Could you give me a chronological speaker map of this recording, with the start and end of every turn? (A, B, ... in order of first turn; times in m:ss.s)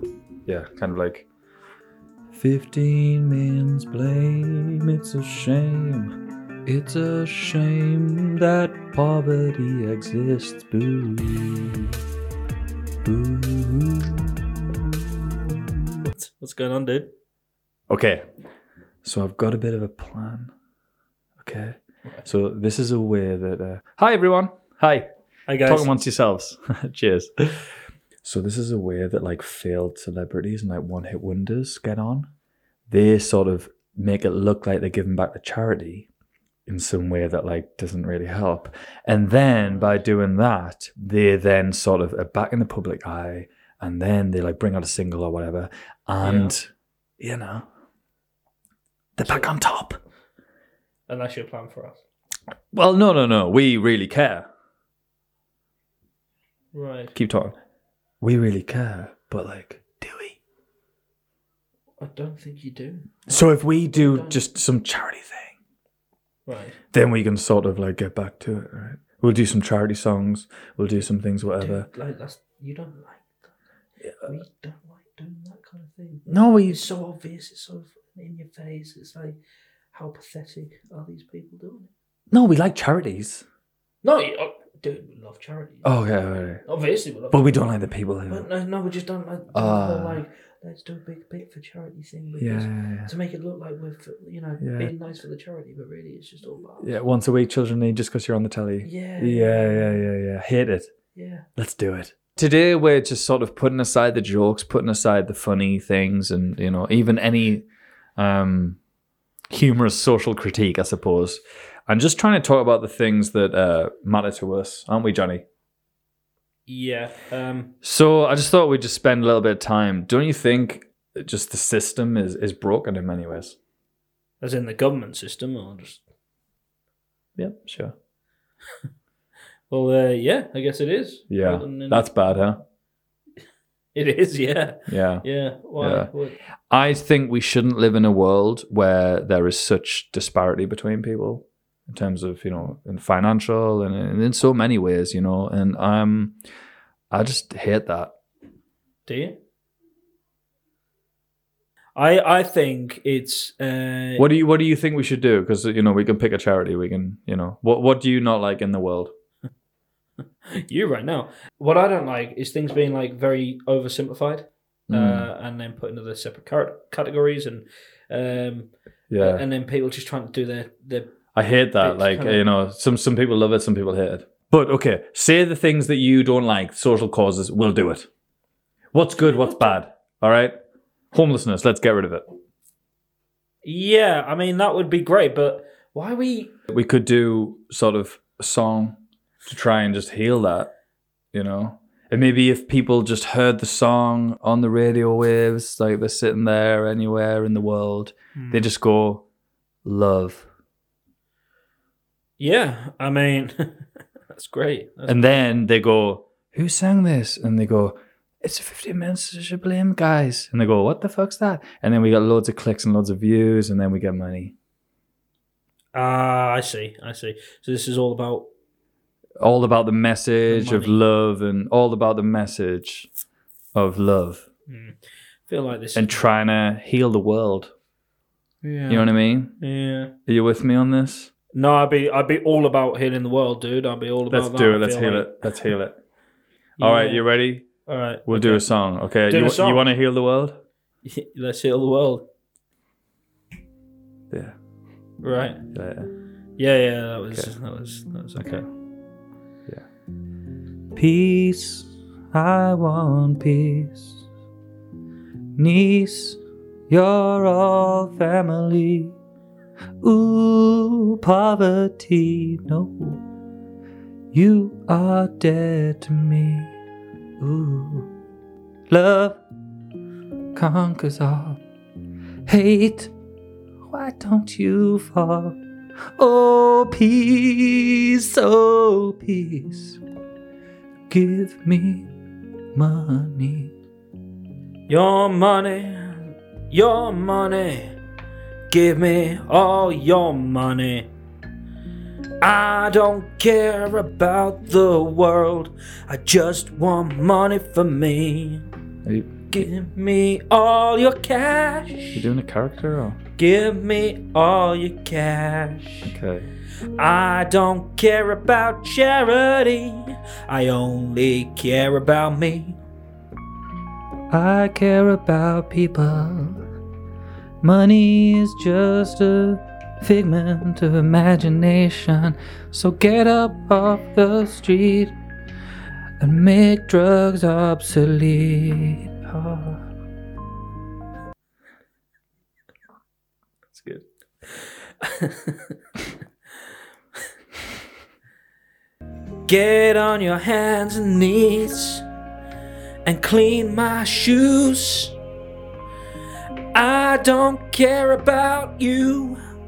0:00.5-0:01.3 A
0:02.3-0:06.1 A
0:06.7-0:12.0 A
0:13.0-0:15.8 A
0:16.0-0:17.1 B
0:17.9-0:18.2 A
0:19.0-0:20.5 A
0:21.4-0:25.1 A
0:25.5-0:25.9 B
0:25.6-0:27.6 A
0:28.2-0:32.3 A
0:32.9-0:36.1 A
0:36.7-0:46.7 A
0:39.6-0:40.0 B
0:46.2-0:46.6 B
0:47.2-0:47.7 A
0:49.2-0:50.0 A
0:49.2-0:49.5 B
0:51.1-0:52.0 B
0:52.7-0:54.5 A
0:56.7-0:57.1 B
0:57.2-0:57.6 A
0:58.2-1:00.4 A
1:02.0-1:03.4 B
1:03.3-1:05.6 A
1:03.9-1:04.4 B
1:06.5-1:06.8 B
1:06.9-1:11.9 A
1:11.6-1:13.5 B
1:14.0-1:14.3 A
1:14.2-1:19.4 B
1:16.3-1:16.9 A
1:19.9-1:21.9 B
1:22.3-1:23.5 A
1:24.0-1:25.9 B
1:25.8-1:26.6 A
1:26.6-1:27.7 B
1:27.3-1:28.5 A
1:28.3-1:37.0 B
1:29.5-1:30.2 A
1:32.4-1:33.1 A
1:34.6-1:34.9 A
1:36.8-1:40.9 A
1:38.8-1:40.0 B
1:41.2-1:41.5 B
1:41.6-1:48.8 A
1:49.5-1:55.4 A
1:56.7-1:57.7 B
1:57.8-2:03.6 A
2:04.4-2:06.0 B
2:07.4-2:07.9 A
2:09.7-2:12.3 B
2:11.3-2:12.6 A
2:13.9-2:16.4 B
2:14.9-2:15.3 A
2:15.8-2:16.1 A
2:16.7-2:26.4 A
2:27.1-2:28.1 A
2:29.1-2:29.4 B
2:32.0-2:34.2 B
2:34.2-2:39.1 A
2:40.6-2:51.2 B
2:44.9-2:45.3 A
2:49.1-2:49.4 A
2:51.4-2:58.1 A
2:51.8-2:52.4 B
2:58.9-3:00.5 A
2:59.2-2:59.8 B
3:01.1-3:02.2 A
3:03.6-3:06.5 B
3:06.7-3:10.7 A
3:11.3-3:19.2 A
3:18.4-3:18.6 B
3:19.8-3:20.5 A
3:22.4-3:25.4 B
3:25.1-3:34.6 A
3:35.9-3:38.5 B
3:39.4-3:43.1 A
3:40.5-3:41.0 B
3:43.8-3:44.4 A
3:44.7-3:46.2 B
3:46.0-3:47.7 A
3:48.6-3:50.1 B
3:48.9-3:49.6 A
3:50.3-3:51.3 A
3:51.5-3:55.4 B
3:54.3-3:56.0 A
3:56.8-3:57.3 B
3:56.8-3:57.7 A
3:57.9-3:58.7 B
3:58.3-4:00.6 A
3:59.3-3:59.9 B
4:01.0-4:02.3 B
4:04.3-4:04.6 A
4:05.2-4:05.6 B
4:05.7-4:06.1 A
4:06.6-4:08.6 B
4:08.4-4:08.6 A
4:11.0-4:14.2 A
4:15.6-4:19.2 A
4:20.0-4:23.2 A
4:24.3-4:26.7 A
4:27.4-4:28.1 A
4:28.9-4:29.4 A
4:30.6-4:31.6 A
4:32.5-4:33.1 A
4:33.9-4:35.6 A
4:36.2-4:40.0 A
4:41.1-4:42.1 A
4:42.8-4:43.7 A
4:44.9-4:48.0 B
4:48.7-4:51.1 B
4:52.4-4:58.6 B
4:59.0-4:59.4 A
4:59.5-5:02.3 B
5:02.2-5:03.2 A
5:03.4-5:06.1 B
5:06.1-5:06.5 A
5:07.0-5:12.8 B
5:14.3-5:16.6 A
5:17.6-5:25.2 A
5:26.2-5:29.8 A
5:33.7-5:34.1 B
5:35.0-5:35.7 B
5:39.5-5:42.0 B
5:43.0-5:45.2 B
5:46.7-5:49.4 B